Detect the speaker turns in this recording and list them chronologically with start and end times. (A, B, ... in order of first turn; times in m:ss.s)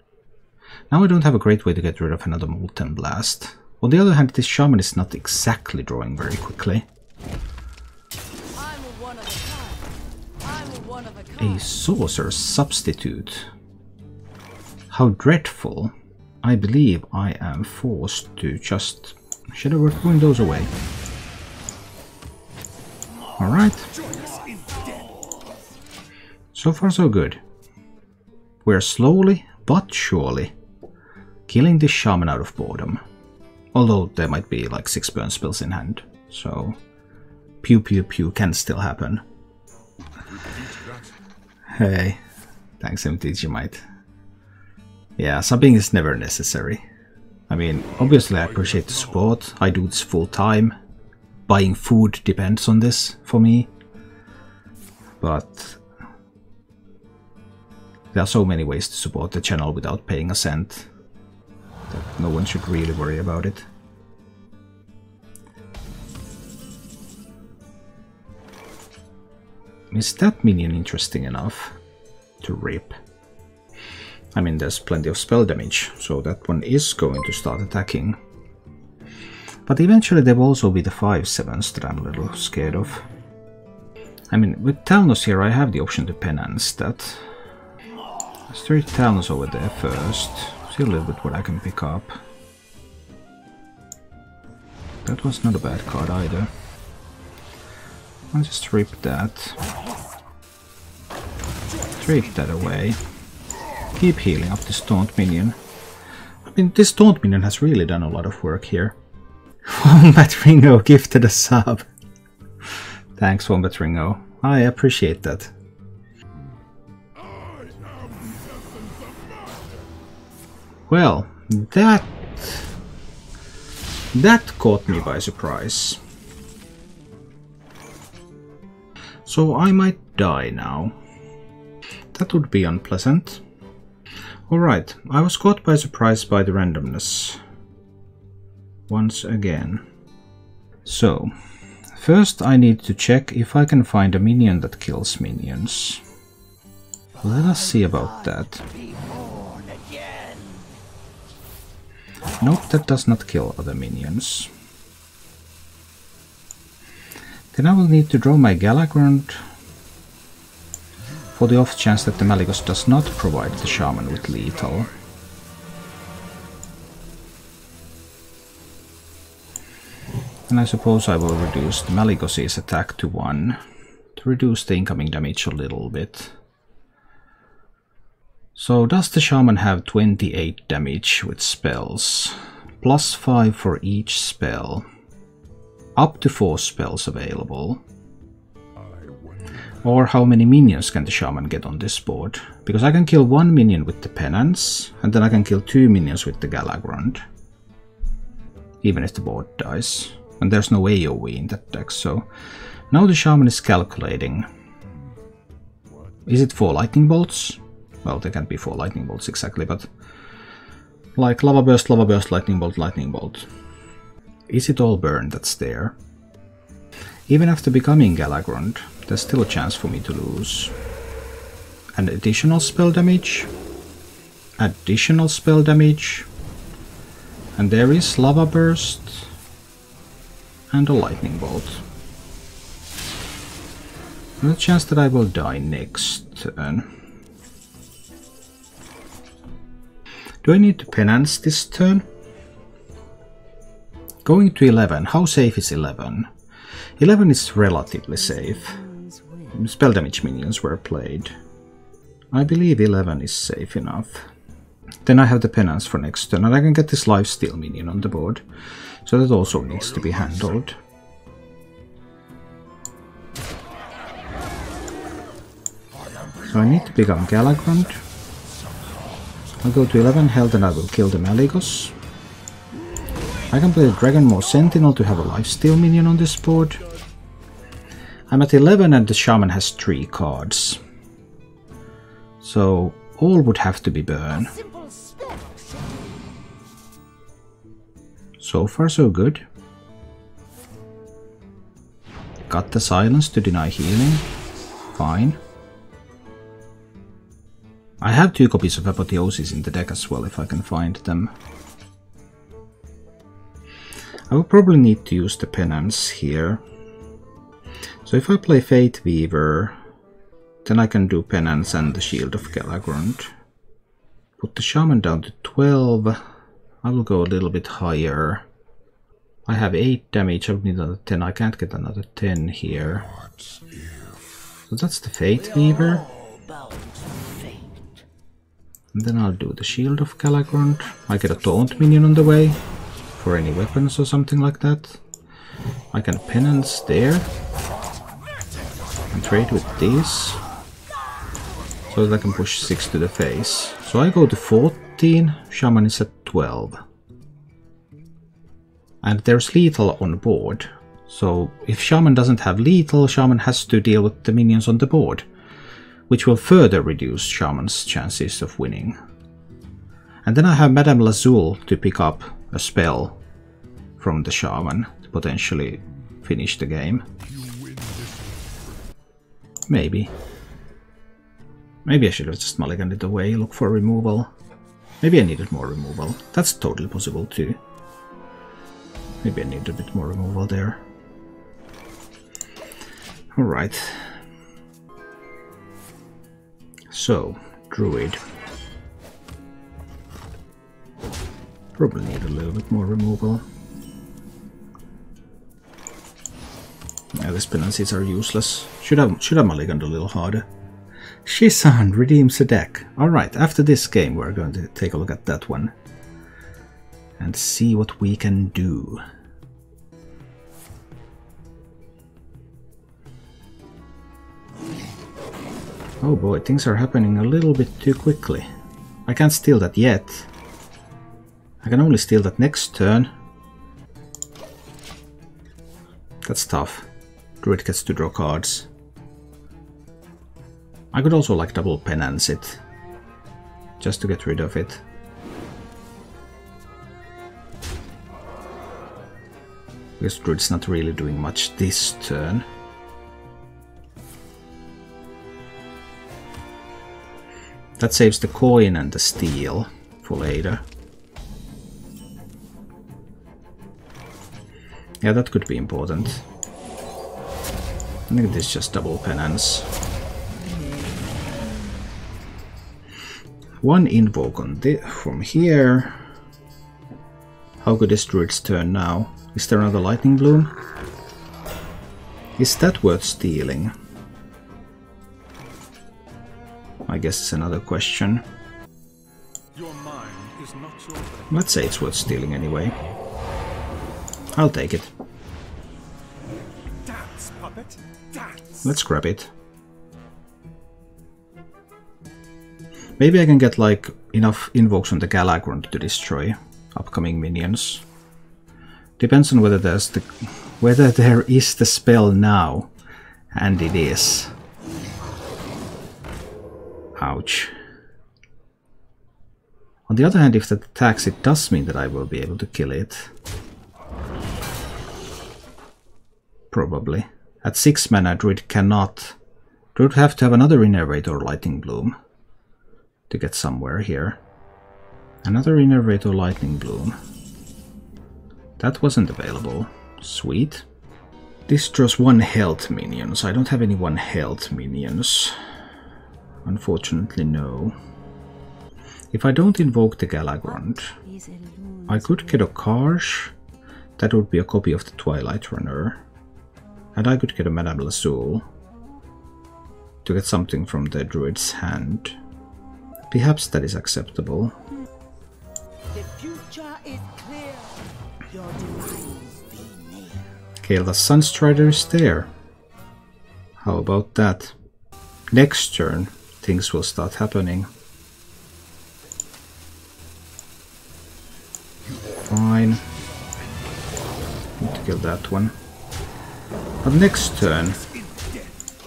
0:00.9-0:06.9 A
0:08.6-0:11.8 B
0:11.4-0:13.5 A
0:14.9-0:20.7 A
0:23.4-0:23.9 A
0:24.1-0:25.6 B
0:24.1-0:24.9 C
0:26.5-0:27.4 A
0:28.6-0:30.5 A
0:31.5-0:33.0 A
0:33.7-0:36.8 A
0:37.6-0:39.2 A
0:41.7-0:42.2 A
0:42.8-0:43.8 A
0:45.2-0:46.8 A
0:47.5-0:50.8 A
0:51.5-0:53.7 A
0:55.2-0:55.8 A
0:58.1-1:00.9 A
1:01.9-1:03.7 A
1:09.9-1:11.8 A
1:12.4-1:13.0 A
1:14.3-1:18.2 A
1:19.7-1:23.0 A
1:24.3-1:27.3 A
1:28.5-1:32.2 A
1:35.0-1:36.5 A
1:38.3-1:39.6 A
1:39.7-1:40.1 B
1:42.0-1:43.0 A
1:44.0-1:45.6 A
1:46.5-1:49.0 A
1:49.6-1:51.9 A
1:53.2-1:55.5 A
2:00.9-2:02.7 A
2:04.1-2:06.0 A
2:09.3-2:10.9 A
2:12.1-2:13.4 A
2:14.5-2:17.4 A
2:18.9-2:19.8 A
2:20.9-2:21.3 A
2:22.0-2:26.0 A
2:27.2-2:28.6 A
2:27.3-2:30.8 B
2:32.4-2:34.5 A
2:37.5-2:39.4 A
2:41.4-2:44.9 A
2:50.5-2:53.6 A
2:54.2-2:56.3 A
2:58.6-3:04.9 A
3:06.0-3:07.8 A
3:08.8-3:09.4 C
3:09.8-3:17.2 A
3:18.8-3:22.3 A
3:22.9-3:24.5 A
3:26.3-3:29.9 A
3:31.2-3:33.5 A
3:34.5-3:36.0 A
3:37.3-3:40.7 A
3:42.0-3:43.5 A
3:44.6-3:46.3 A
3:47.6-3:49.3 A
3:50.7-3:51.8 A
3:54.4-3:56.9 A
4:00.4-4:02.1 A
4:04.2-4:06.3 A
4:07.0-4:08.8 A
4:08.2-4:09.6 B
4:09.5-4:11.4 A
4:12.3-4:14.3 A
4:15.1-4:18.4 A
4:19.1-4:20.8 A
4:26.4-4:28.0 A
4:29.6-4:32.0 A
4:33.5-4:36.8 A
4:38.3-4:40.8 A
4:42.4-4:44.5 A
4:44.3-4:46.3 B
4:48.4-4:49.4 A
4:52.5-4:54.3 A
4:54.9-4:55.4 A
4:58.0-5:01.3 A
5:04.3-5:06.6 A
5:08.1-5:09.8 A
5:10.6-5:13.3 A
5:14.4-5:16.2 A
5:16.8-5:18.4 A
5:19.5-5:23.1 A
5:24.7-5:26.1 A
5:25.6-5:28.0 B
5:28.9-5:32.6 A
5:33.2-5:35.0 A
5:35.9-5:37.3 A
5:39.1-5:40.4 A
5:41.9-5:46.8 A
5:49.0-5:55.3 A
5:56.1-5:59.0 A
6:00.2-6:03.2 A
6:04.0-6:07.1 A
6:09.7-6:10.1 A
6:11.8-6:14.3 A
6:15.0-6:17.6 A
6:19.2-6:20.8 A
6:23.3-6:24.2 A
6:26.9-6:28.2 A
6:31.8-6:33.4 A
6:37.1-6:40.5 A
6:41.2-6:45.7 A
6:47.2-6:49.0 A
6:56.0-6:58.5 A
6:59.1-7:00.3 A
7:01.6-7:03.1 A
7:06.2-7:06.9 A
7:07.4-7:08.7 A
7:10.9-7:12.6 A
7:13.8-7:14.8 A
7:20.0-7:22.5 A
7:27.8-7:30.6 A
7:35.0-7:36.2 A
7:38.1-7:39.7 A
7:43.6-7:46.0 A
7:47.6-7:50.6 A
7:52.4-7:53.7 A
7:56.9-7:58.2 A
7:59.5-8:01.8 C
8:01.3-8:02.8 A
8:04.3-8:04.9 A
8:06.8-8:08.7 C
8:08.6-8:09.3 A
8:13.0-8:17.8 A
8:19.0-8:22.7 A
8:23.3-8:24.3 A
8:27.0-8:27.5 A
8:29.9-8:33.1 A
8:36.5-8:39.2 A
8:39.8-8:42.0 A
8:43.1-8:44.2 A
8:45.2-8:47.0 A
8:48.6-8:50.6 A
8:51.5-8:55.4 A
8:56.4-8:57.8 A
8:59.1-9:01.0 A
9:00.4-9:02.5 B
9:01.9-9:03.3 A
9:04.0-9:06.0 A
9:07.0-9:08.5 A
9:10.0-9:12.2 A
9:13.1-9:14.6 A
9:15.9-9:20.3 B
9:20.6-9:22.3 A
9:23.6-9:24.6 A
9:25.3-9:27.7 A
9:32.3-9:32.8 A
9:34.6-9:35.5 A
9:36.8-9:37.8 A
9:37.8-9:38.5 C